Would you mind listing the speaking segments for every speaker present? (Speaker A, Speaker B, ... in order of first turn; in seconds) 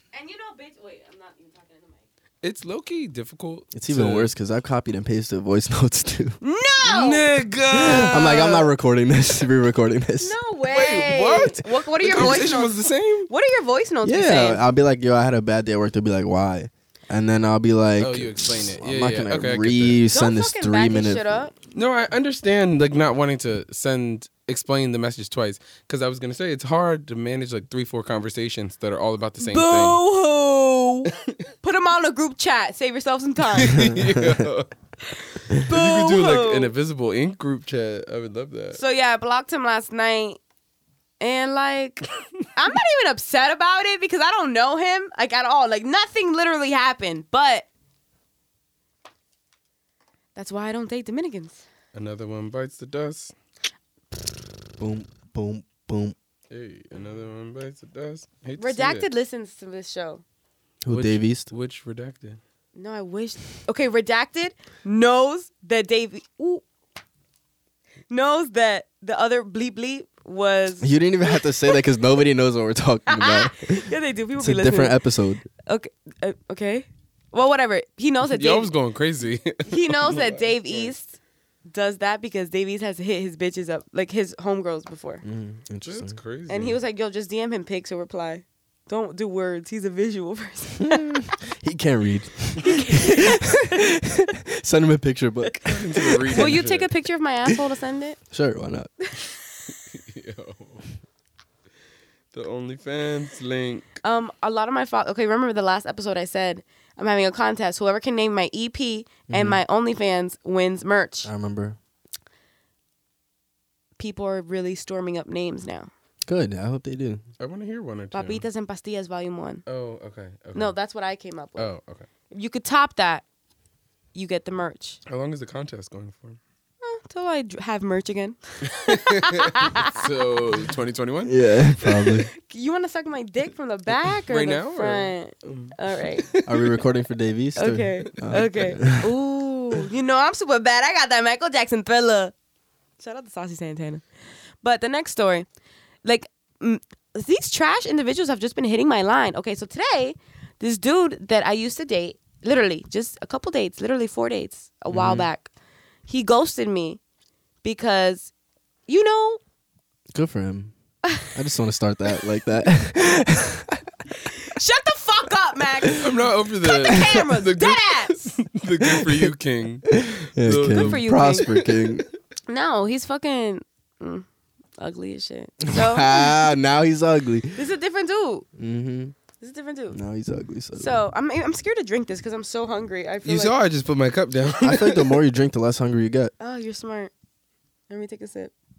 Speaker A: 0.1-2.0, 6.4-7.3, 10.2-12.8, 13.3-14.6, 20.1-21.5, 29.4-31.1, 31.6-33.9, 35.5-36.7, 38.7-40.4, 41.2-47.7, 50.4-51.6, 58.6-60.2, 62.8-66.6, 68.1-71.7, 73.1-75.0, 75.6-78.7, 79.7-81.2, 81.7-85.2, 86.5-91.2, 92.7-93.8, 96.3-98.2, 104.0-111.3, 114.0-115.9, 118.1-119.6, 120.5-121.7, 122.3-123.2, 124.2-125.0, 126.8-130.1, 132.0-136.3, 137.6-142.3, 143.0-144.0, 144.6-145.4, 146.1-155.5, 156.1-157.0, 157.6-158.3, 158.9-159.4, 164.2-166.1, 166.6-168.4, 170.7-171.5, 172.5-174.3, 174.8-176.4, 177.6-178.5, 179.4-180.0, 180.8-183.5, 186.4-187.1, 187.9-188.5
Speaker B: 2.4-4.3, 6.8-8.7, 10.7-13.3, 18.0-20.0, 21.7-30.0, 33.5-34.7, 35.5-38.8, 51.9-53.3, 56.5-59.1, 60.9-62.4, 78.3-80.9, 85.8-86.8, 95.6-96.9, 99.9-100.8, 102.3-103.9, 117.4-118.4, 119.7-120.8, 121.6-122.1, 125.1-126.4, 128.7-131.4, 134.3-136.8, 166.0-172.0, 183.2-185.2
Speaker C: 3.7-6.4, 7.8-10.4, 14.0-21.2, 34.1-34.4, 54.8-56.1, 60.8-61.5, 70.8-75.5, 85.2-86.2, 90.9-96.6, 98.3-99.0, 109.3-109.6, 111.2-111.8, 116.3-117.2, 131.2-132.3, 136.4-139.1, 154.9-155.2, 160.1-160.7, 161.2-163.8, 168.8-169.3, 169.9-172.1, 175.7-177.6, 178.6-179.2, 179.9-181.0, 184.6-186.3